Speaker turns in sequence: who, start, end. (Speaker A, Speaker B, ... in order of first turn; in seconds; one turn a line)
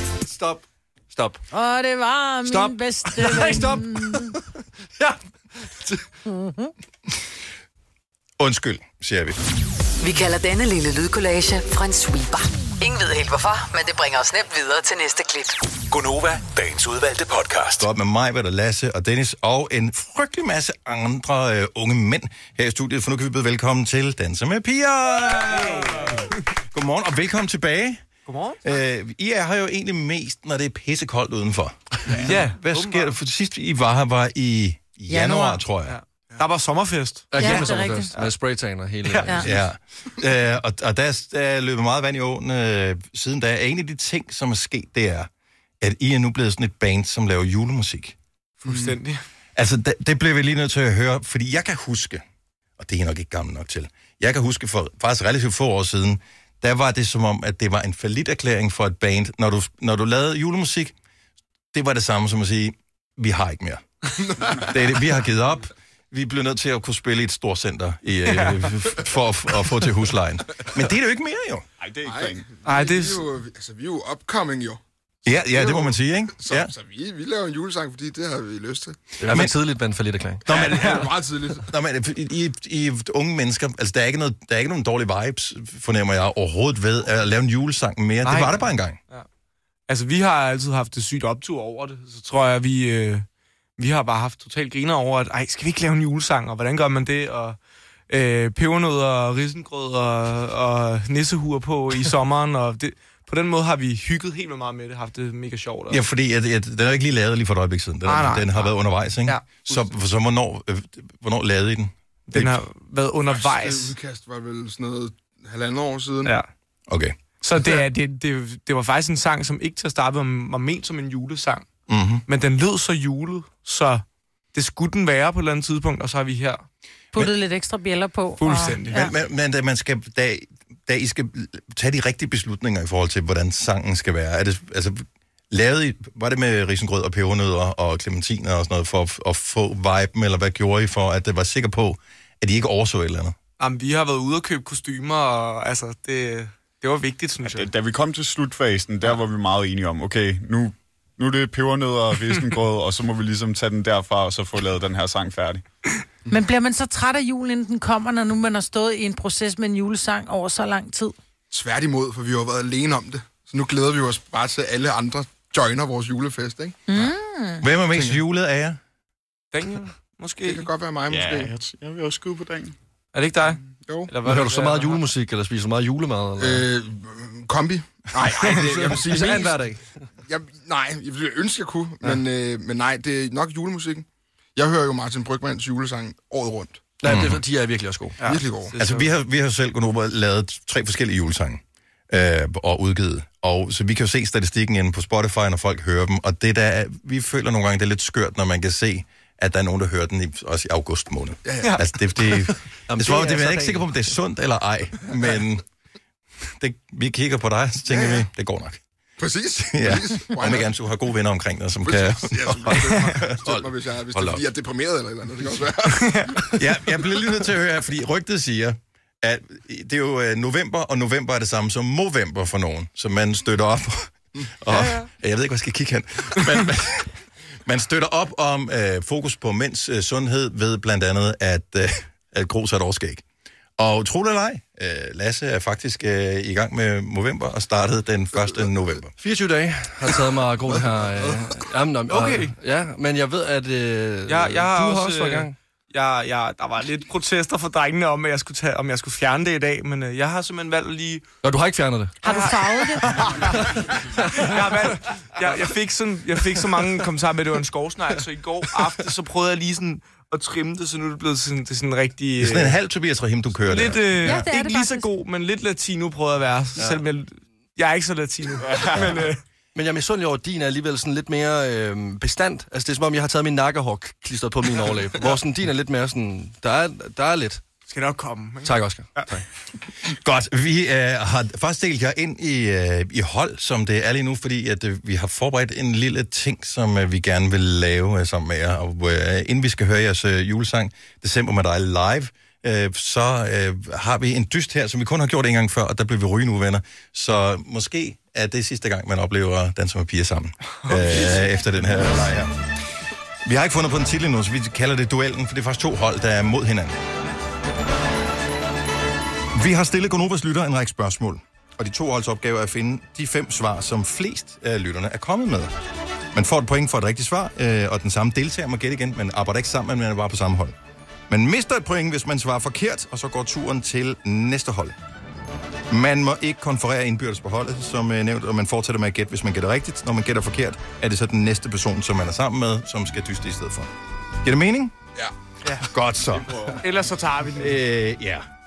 Speaker A: 0.2-1.4
Speaker B: 1.5-4.3
Speaker A: 2.4-4.3
Speaker B: 6.3-6.7
Speaker C: 8.4-9.4
Speaker D: 10.0-15.6
Speaker E: 15.9-17.9
Speaker C: 17.8-28.0
Speaker F: 25.5-26.2
Speaker F: 28.3-28.6
Speaker C: 28.6-36.0
Speaker F: 32.1-33.1
Speaker B: 35.1-35.6
Speaker F: 35.8-38.3
Speaker A: 37.3-39.6
Speaker B: 37.4-38.1
Speaker F: 39.1-39.4
Speaker C: 39.4-45.3
Speaker C: 45.8-48.1
Speaker F: 48.6-49.2
Speaker C: 49.5-52.2
Speaker C: 52.8-60.9
Speaker C: 61.7-63.8
Speaker C: 64.6-71.6
Speaker F: 68.3-68.5
Speaker G: 71.8-72.4
Speaker H: 72.0-74.8
Speaker F: 72.6-73.2
Speaker C: 75.2-76.7
Speaker H: 75.4-79.0
Speaker A: 79.2-80.5
Speaker C: 79.3-79.5
Speaker C: 80.5-89.0
Speaker H: 80.5-81.6
Speaker F: 80.5-81.0
Speaker F: 88.2-89.3
Speaker F: 89.9-93.2
Speaker F: 93.8-106.0
Speaker C: 105.9-112.6
Speaker F: 108.0-109.9
Speaker F: 112.3-113.9
Speaker H: 113.3-116.4
Speaker C: 116.9-117.1
Speaker F: 117.4-121.7
Speaker C: 121.9-122.2
Speaker F: 122.3-126.7
Speaker B: 127.1-129.1
Speaker F: 128.4-129.1
Speaker C: 128.9-143.3
Speaker F: 143.6-147.7
Speaker G: 147.4-155.6
Speaker B: 156.3-161.2
Speaker H: 161.5-166.9
Speaker B: 166.9-167.6
Speaker C: 167.6-168.8
Speaker H: 167.9-168.2
Speaker F: 169.5-170.7
Speaker H: 170.4-171.5
Speaker G: 171.3-172.7
Speaker F: 173.1-175.0
Speaker H: 173.8-174.1
Speaker A: 174.2-176.7
Speaker H: 176.4-179.5
Speaker A: 178.4-180.0
Speaker H: 180.2-186.8
Speaker A: 187.0-188.2
Speaker C: 187.0-187.4
Speaker F: 188.2-189.1
Speaker H: 188.2-188.8
Speaker C: 188.7-205.6
Speaker A: 202.9-204.0
Speaker C: 206.6-208.8
Speaker H: 207.9-208.2
Speaker H: 209.2-210.7
Speaker C: 209.7-214.4
Speaker H: 211.8-216.2
Speaker F: 215.9-216.4
Speaker C: 216.5-227.1
Speaker F: 224.7-225.1
Speaker C: 227.7-233.2
Speaker C: 233.8-239.1
Speaker A: 239.2-245.5
Speaker F: 242.1-242.5
Speaker F: 244.3-251.2
Speaker A: 251.4-252.5
Speaker B: 252.2-253.2
Speaker F: 252.2-253.8
Speaker A: 253.1-253.7
Speaker A: 254.2-254.6
Speaker F: 254.3-262.8
Speaker C: 262.4-264.4
Speaker F: 263.6-269.4
Speaker B: 264.2-265.1
Speaker A: 269.7-277.6
Speaker F: 277.9-279.4
Speaker A: 278.6-279.4
Speaker C: 280.1-302.5
Speaker F: 300.8-301.6
Speaker C: 303.4-307.0
Speaker C: 309.5-315.7
Speaker C: 316.3-320.7
Speaker C: 321.3-324.9
Speaker C: 325.9-333.9
Speaker C: 334.4-334.9
Speaker C: 335.8-336.7
Speaker F: 336.8-337.8
Speaker C: 337.5-338.5